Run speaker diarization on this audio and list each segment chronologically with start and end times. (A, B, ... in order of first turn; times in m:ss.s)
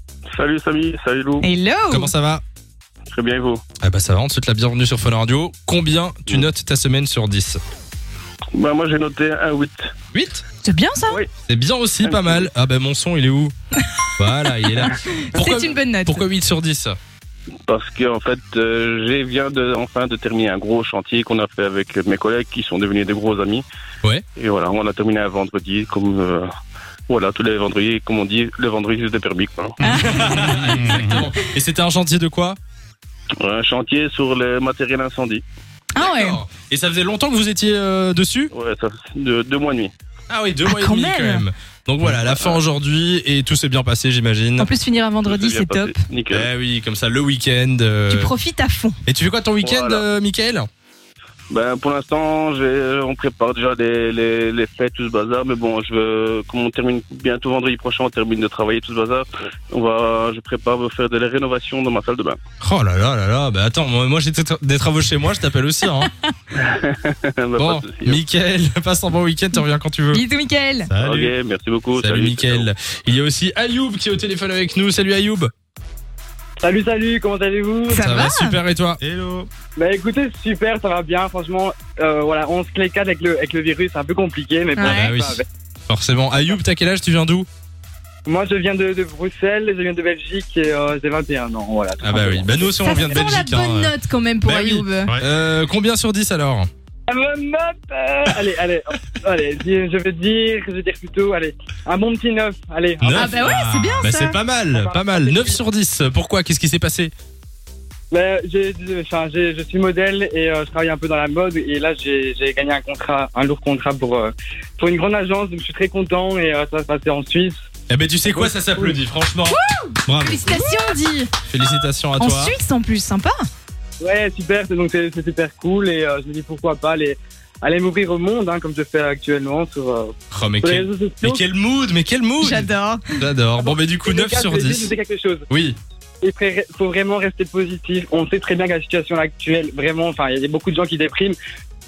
0:00.3-0:01.5 A
0:01.4-0:02.1 B
0:01.9-0:02.4 C
0:03.1-0:03.6 A
0:03.8-0:07.6 C
0:08.5-0:09.9 A
0:10.1-0:10.4 C
0:10.6-0:11.2 B
0:11.4-0:13.5 C
0:13.8-0:14.1 B
0:14.2-0:17.0 C
0:14.6-0:16.3 B
0:17.7-0:23.6 A
0:24.4-0:26.5 A
0:27.1-0:29.8 A
0:29.9-0:31.2 B
0:30.0-0:31.1 D
0:30.0-0:32.6 C
0:33.4-0:35.4 A
0:36.0-0:36.4 B
0:36.0-0:38.5 C
0:38.5-0:39.9 A
0:40.3-0:44.7 C
0:40.6-0:41.4 B
0:42.1-0:42.6 A
0:44.6-0:46.0 B
0:45.2-0:46.5 A
0:46.3-0:48.3 C
0:48.1-0:49.0 B
0:49.1-0:50.7 C
0:49.6-0:50.0 A
0:51.5-1:02.4 A
1:02.6-1:06.1 C
1:06.0-1:06.3 B
1:06.6-1:08.2 A
1:07.6-1:10.2 C
1:10.1-1:10.9 B
1:10.9-1:11.3 D
1:11.0-1:12.7 A
1:12.0-1:15.5 C
1:16.6-1:18.2 E
1:17.9-1:18.6 B
1:17.9-1:19.0 C
1:19.0-1:19.5 D
1:19.8-1:25.4 E
1:24.8-1:25.1 B
1:24.9-1:27.5 C
1:28.3-1:32.8 E
1:32.0-1:33.9 C
1:32.8-1:35.2 B
1:34.4-1:36.7 C
1:35.1-1:35.3 D
1:37.1-1:43.5 E
1:43.0-1:47.1 C
1:43.1-1:44.4 B
1:44.7-1:45.6 E
1:48.1-1:57.6 E
1:57.9-2:00.6 C
1:58.2-1:59.0 E
1:59.5-2:01.3 B
2:01.5-2:02.6 C
2:02.2-2:03.4 B
2:04.0-2:11.4 E
2:10.3-2:14.9 C
2:12.4-2:13.2 B
2:13.6-2:15.5 E
2:15.5-2:15.8 C
2:16.2-2:21.4 E